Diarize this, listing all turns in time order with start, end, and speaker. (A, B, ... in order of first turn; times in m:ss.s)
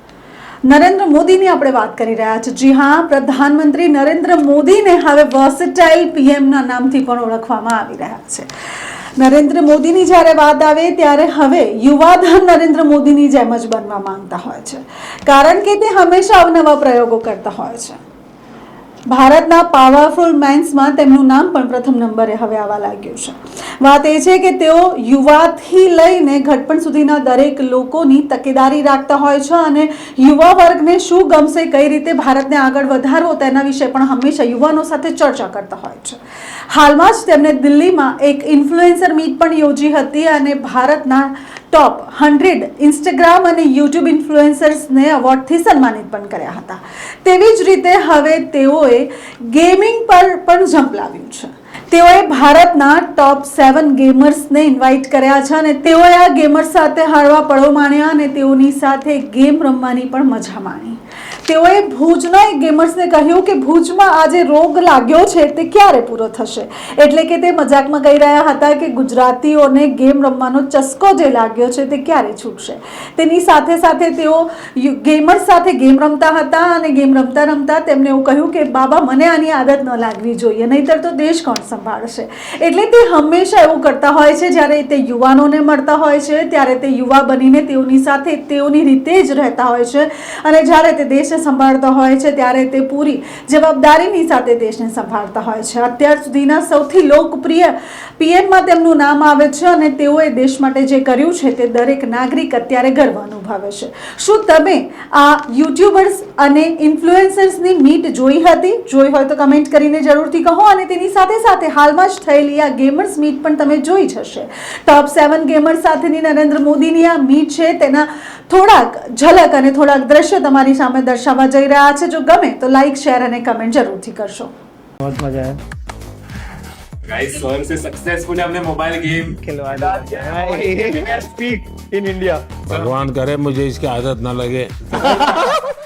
0:00.6-0:08.5 A
0:09.2-0:18.0 A
0:19.1-0:36.2 A
0:36.7-2:04.5 A
2:05.0-2:05.6 B
2:07.0-2:11.2 C
2:09.4-2:12.5 B
2:12.7-2:15.3 D
2:15.0-2:15.5 B